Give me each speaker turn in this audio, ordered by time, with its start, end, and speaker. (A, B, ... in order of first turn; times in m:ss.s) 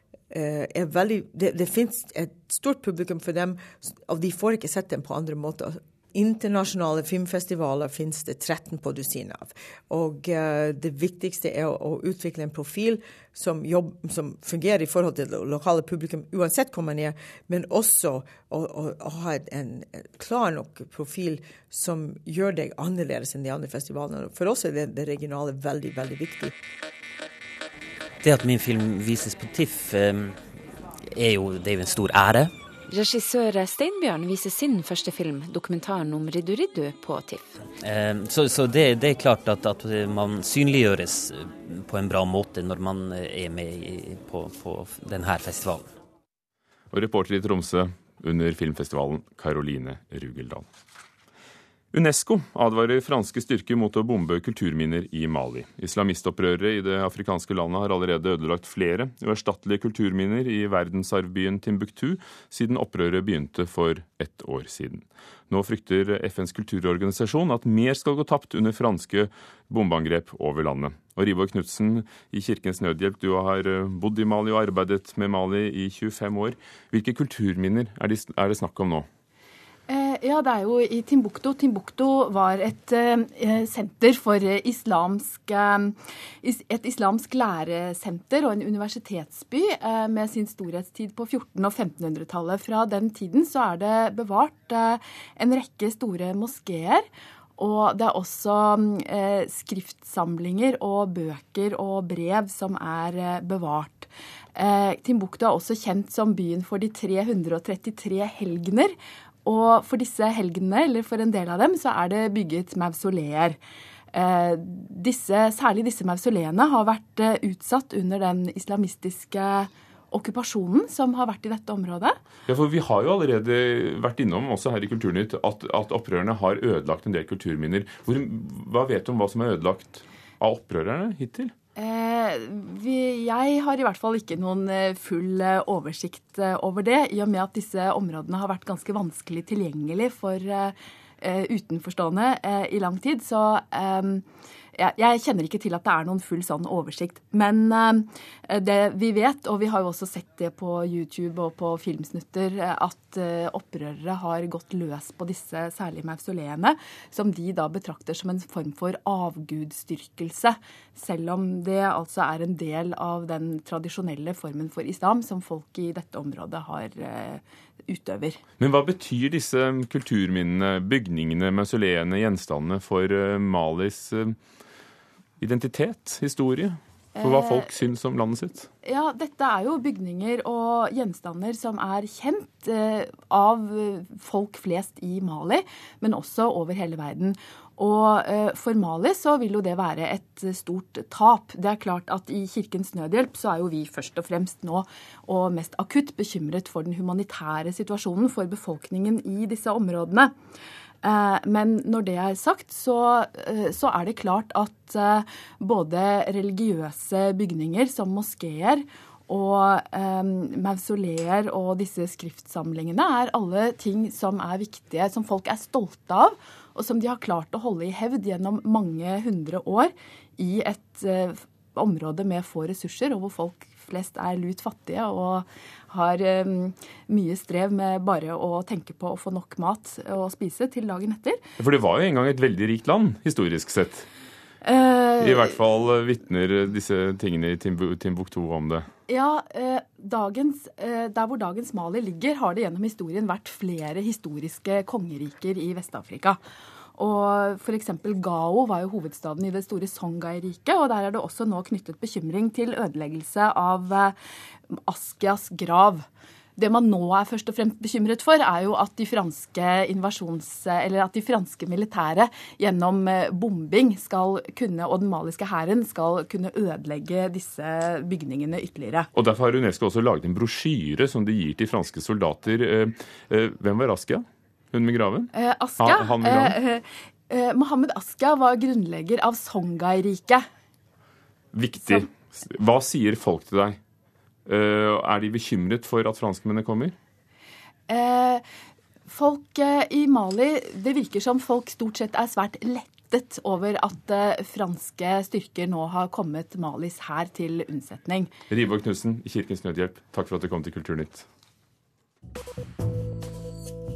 0:00.3-0:26.5 A
0:28.2-0:30.5 B
0:31.1-0:32.5 B
0:32.9-0:37.5 C
0:37.8-0:45.9 B
0:46.9-0:50.7 D
0:51.9-1:19.1 D
1:19.9-1:37.1 E
1:37.6-1:53.6 E
1:54.1-2:02.2 E
2:02.5-2:11.5 D
2:11.8-2:24.2 E
2:24.7-2:48.4 E
2:48.6-2:54.4 D
2:55.4-2:58.7 D
2:57.2-2:57.7 E
2:58.8-3:20.3 E
3:21.0-3:51.4 E
3:51.6-3:54.1 D
3:54.6-3:55.5 E
3:55.2-3:58.9 D
3:59.1-4:06.4 E
4:07.0-4:14.1 E
4:14.7-4:16.0 E
4:16.6-4:29.1 E
4:29.1-4:36.6 D
4:35.3-4:40.4 E
4:41.5-4:43.8 D
4:44.4-4:46.9 D
4:47.9-4:48.4 E
4:49.1-4:58.3 E
4:58.5-5:01.2 D